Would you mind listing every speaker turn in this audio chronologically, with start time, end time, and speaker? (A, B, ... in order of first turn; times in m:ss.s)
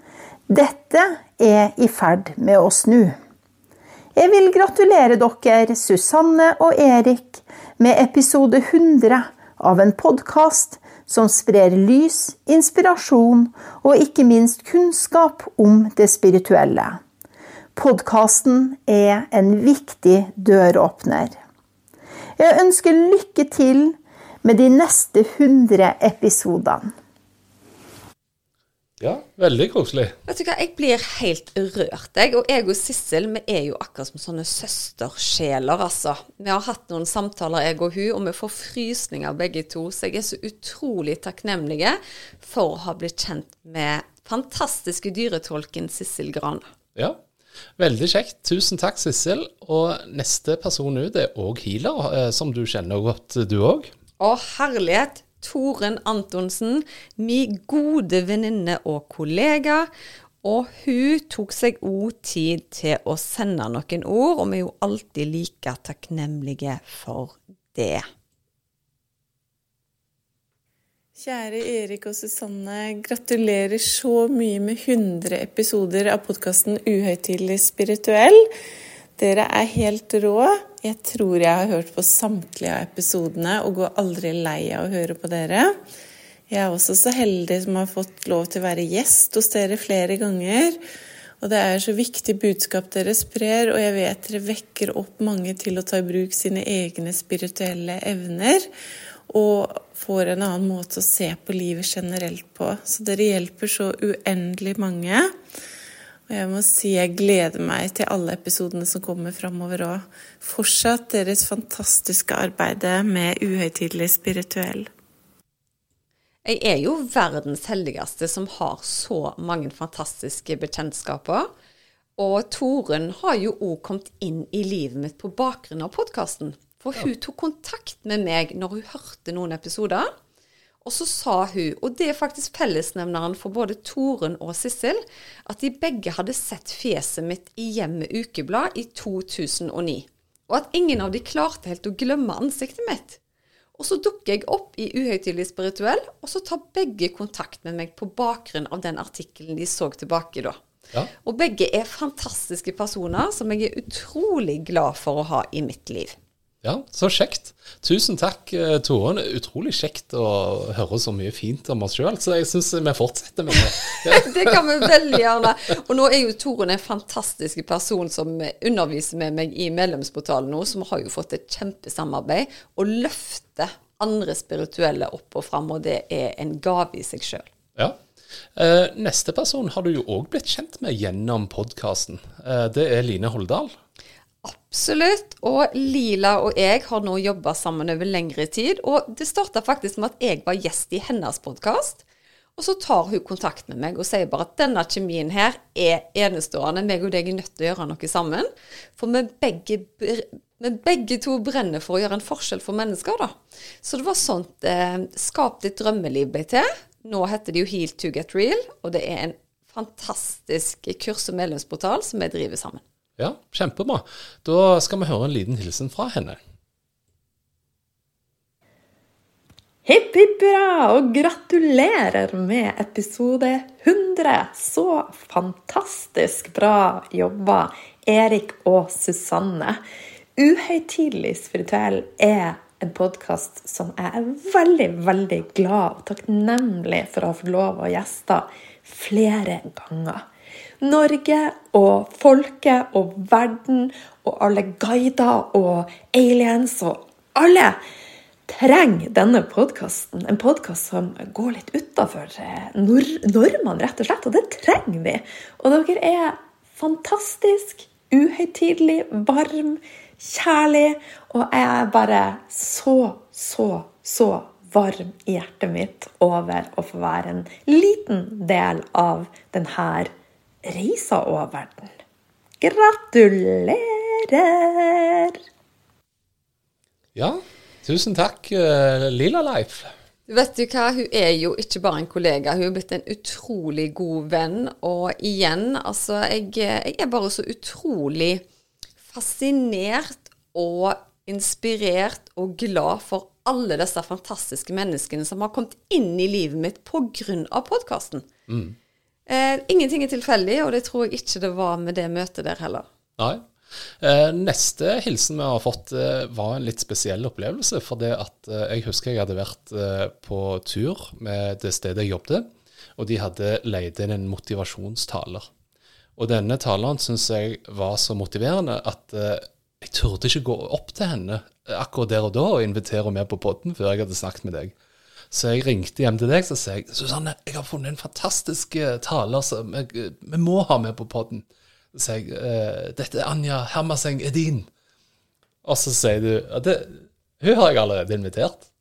0:00.5-0:03.2 A
0:04.1-0:17.0 A
0:17.8-0:21.4 A
0:22.4-0:26.9 A
0:29.0-0:30.2 B
0:30.3-0:46.7 C
0:47.8-0:53.9 B
0:54.2-0:59.9 C
1:00.4-1:08.0 C
1:11.2-1:18.5 D
1:19.2-1:25.8 D
1:26.5-1:30.8 D
1:31.4-1:38.7 D
1:39.3-1:45.3 D
1:46.3-1:54.9 D
1:56.4-2:01.5 C
2:02.2-2:10.1 C
2:10.8-2:23.2 C
2:23.8-2:30.6 C
2:31.2-2:36.2 C
2:36.6-2:44.8 B
2:44.1-2:57.5 C
2:58.5-3:03.7 B
3:04.4-3:12.0 C
3:12.6-3:32.8 C
3:33.2-3:36.4 B
3:39.8-3:49.8 E
3:50.4-4:00.2 E
4:00.8-4:07.8 E
4:08.5-4:30.1 E
4:30.6-4:32.0 E
4:32.6-4:35.4 E
4:37.1-4:39.9 B
4:40.3-4:48.4 C
4:49.1-4:58.3 C
4:58.5-4:58.8 B
4:59.3-5:02.8 C
5:03.2-5:03.5 B
5:04.0-5:15.5 B
5:16.2-5:24.7 B
5:25.3-5:34.7 B
5:35.6-5:38.6 B